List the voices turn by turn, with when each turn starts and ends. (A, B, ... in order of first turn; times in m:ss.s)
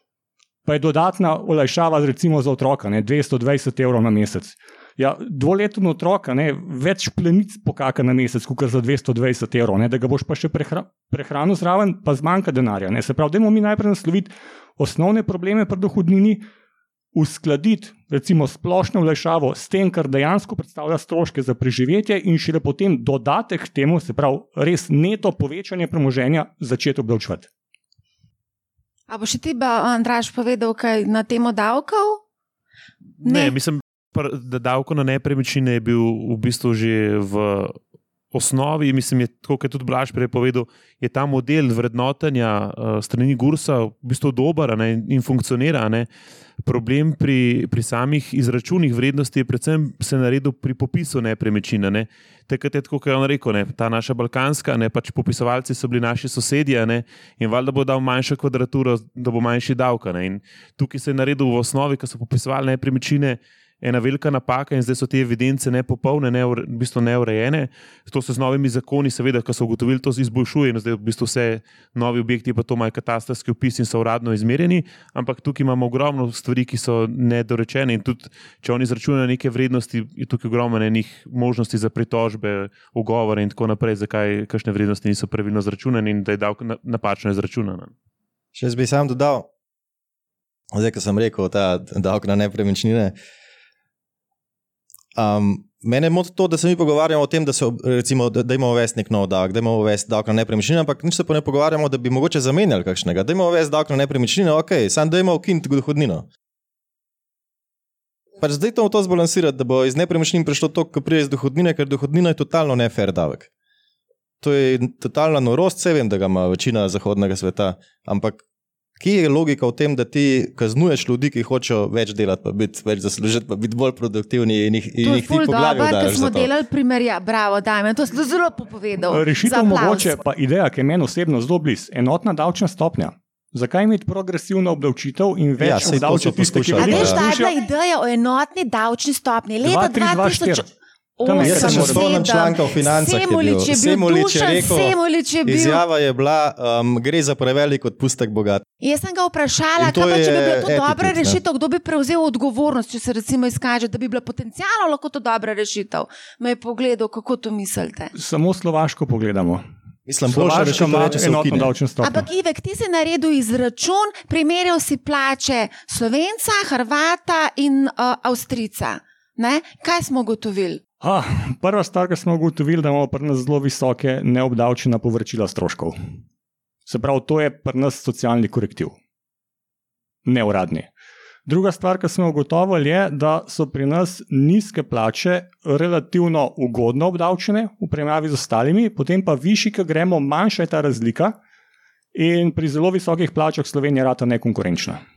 0:00.6-0:16.4 A
0:17.1-0:27.5 A
0:29.1-0:32.2 B
0:33.2-0:37.8 C
0:33.2-0:33.5 B
0:38.3-0:46.1 C
0:46.6-1:27.9 C
1:28.5-1:29.5 D
1:30.7-1:33.1 D
1:35.2-1:46.3 D
1:48.4-1:53.5 D
1:54.4-1:58.4 D
1:59.0-2:06.5 D
2:05.0-2:10.2 B
2:09.1-2:17.5 A
2:15.6-2:17.3 D
2:16.8-2:20.6 B
2:19.6-2:20.7 A
2:21.2-2:25.8 B
2:21.2-2:22.2 A
2:21.3-2:28.6 D
2:28.8-2:38.1 B
2:29.8-2:31.4 D
2:38.1-2:39.6 A
2:40.1-2:41.7 D
2:40.3-2:42.3 A
2:42.0-2:50.8 B
2:51.0-2:56.0 A
2:56.9-2:59.0 A
3:00.2-3:00.9 A
3:01.4-3:11.4 A
3:12.1-3:15.0 A